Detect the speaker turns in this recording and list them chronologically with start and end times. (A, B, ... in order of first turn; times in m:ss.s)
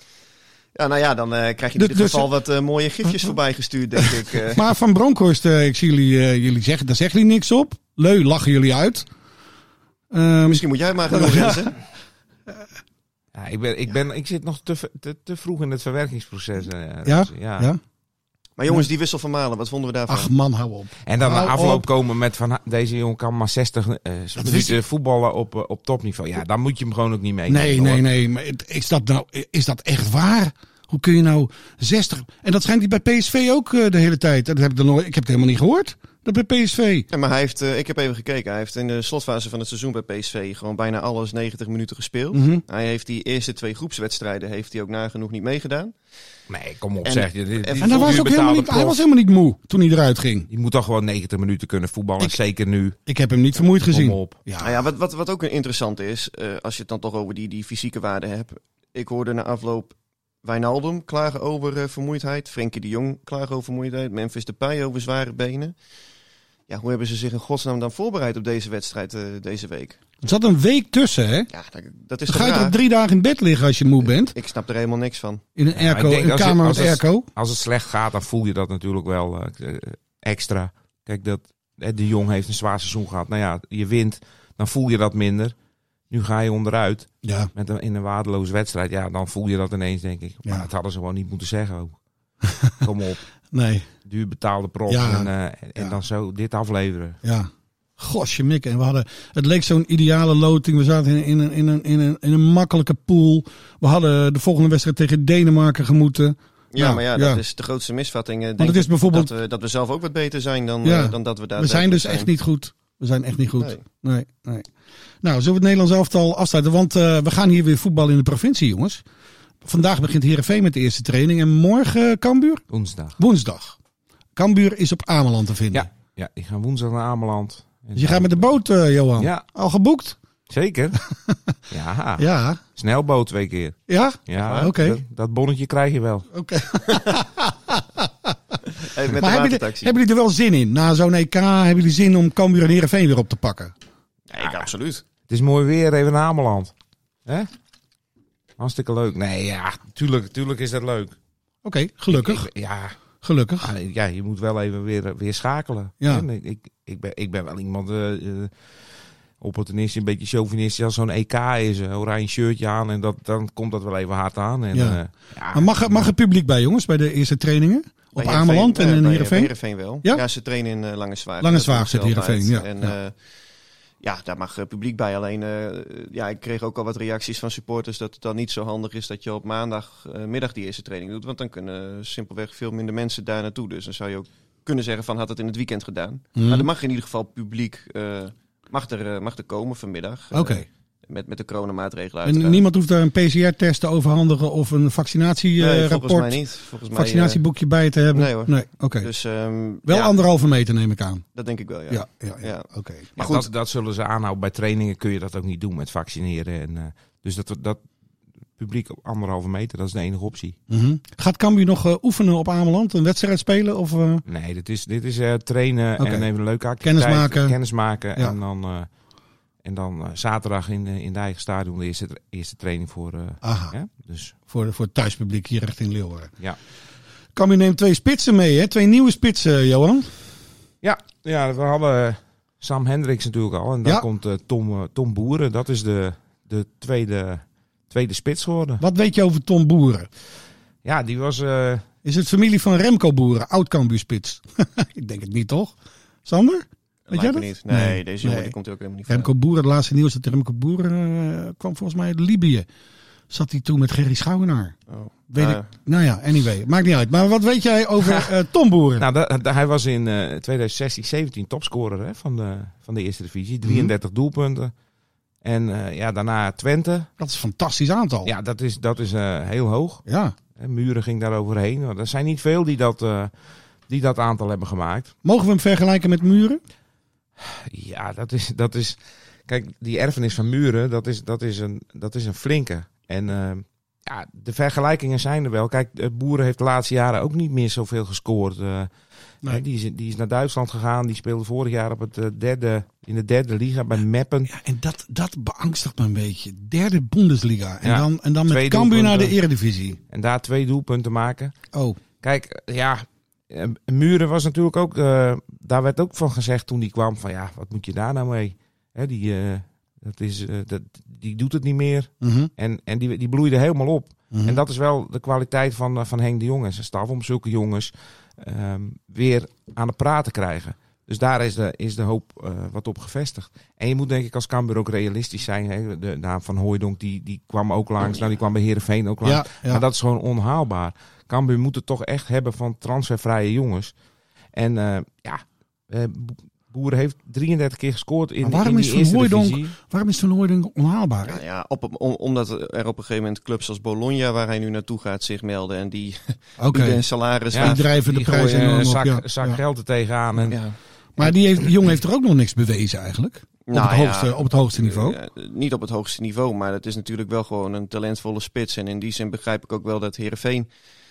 0:00.7-0:04.6 A
0:01.8-0:02.3 B
0:04.4-0:09.1 B
0:10.1-0:11.7 B
0:10.5-0:11.8 A
0:13.3-0:17.7 C
0:17.0-0:17.8 B
0:18.6-0:20.3 A
0:20.1-0:21.8 B
0:21.0-0:28.0 C
0:24.4-0:24.7 B
0:27.5-0:37.1 B
0:37.1-0:45.9 A
0:42.3-0:42.6 B
0:46.5-0:49.0 C
0:47.0-0:48.4 A
0:47.8-0:50.5 B
0:50.5-0:53.0 C
0:53.0-0:54.8 B
0:53.8-0:54.4 C
0:54.6-1:05.7 A
1:06.7-1:10.0 A
1:10.2-1:11.5 B
1:11.5-1:12.8 A
1:12.3-1:14.3 B
1:14.0-1:15.4 A
1:15.6-1:17.3 B
1:15.8-1:25.6 C
1:26.1-1:32.0 C
1:27.2-1:27.5 B
1:32.5-1:32.7 B
1:32.8-1:33.2 C
1:33.5-1:33.9 B
1:34.0-1:37.2 C
1:34.9-1:36.0 B
1:37.2-1:47.4 B
1:46.7-1:52.3 A
1:48.6-1:49.3 B
1:50.8-1:54.7 B
1:55.2-1:59.0 B
1:59.6-2:02.6 B
2:02.7-2:03.2 C
2:03.2-2:03.8 B
2:04.4-2:05.9 B
2:05.7-2:08.5 C
2:07.9-2:10.2 B
2:09.2-2:09.4 C
2:10.5-2:11.0 C
2:11.7-2:12.2 C
2:12.2-2:12.6 B
2:12.8-2:16.3 C
2:13.9-2:15.0 B
2:14.4-2:14.7 A
2:16.3-2:18.3 B
2:18.8-2:19.9 A
2:19.1-2:23.7 B
2:24.3-2:25.0 A
2:24.4-2:24.7 C
2:25.3-2:26.7 C
2:28.6-2:31.2 C
2:31.6-2:32.5 B
2:32.1-2:33.0 C
2:33.2-2:33.7 B
2:33.6-2:38.5 C
2:39.4-2:46.1 C
2:44.7-2:45.0 B
2:45.5-2:49.5 B
2:48.2-2:53.1 A
2:51.4-2:52.9 B
2:54.0-3:12.6 A
3:06.4-3:06.7 B
3:10.3-3:10.6 B
3:12.2-3:16.4 B
3:15.6-3:17.4 A
3:16.9-3:19.1 B
3:18.1-3:20.1 A
3:19.8-3:21.2 B
3:21.3-3:23.5 A
3:21.9-3:23.1 B
3:23.2-3:27.8 C
3:28.6-3:30.6 C
3:30.7-3:34.2 B
3:34.3-3:38.9 C
3:36.0-3:36.3 B
3:36.8-3:37.6 B
3:39.6-3:44.3 C
3:43.4-3:43.7 B
3:44.5-3:46.3 B
3:47.4-3:50.1 B
3:50.8-3:58.8 C
3:58.8-4:00.1 B
4:00.8-4:01.8 C
4:02.0-4:08.5 B
4:07.1-4:09.3 A
4:09.1-4:12.7 B
4:13.3-4:14.7 B
4:14.9-4:15.7 A
4:15.3-4:19.0 B
4:19.0-4:24.7 C
4:25.4-4:27.1 C
4:27.2-4:28.3 B
4:28.2-4:30.0 C
4:30.0-4:30.3 B
4:30.6-4:33.4 C
4:33.9-4:35.1 C
4:35.2-4:36.6 B
4:37.4-4:48.9 C
4:49.4-4:54.5 C
4:54.5-5:00.0 B
4:57.8-4:59.4 C
5:00.1-5:01.5 C
5:01.7-5:02.0 B
5:02.2-5:33.9 C
5:12.2-5:12.5 B
5:14.3-5:14.6 B
5:29.2-5:29.8 B
5:34.5-5:39.7 C
5:38.4-5:41.4 B
5:41.2-5:47.8 A
5:46.6-5:47.0 B
5:47.5-5:50.6 C
5:47.6-5:49.6 B
5:50.5-5:50.7 A
5:51.2-5:55.2 B
5:53.7-6:00.7 A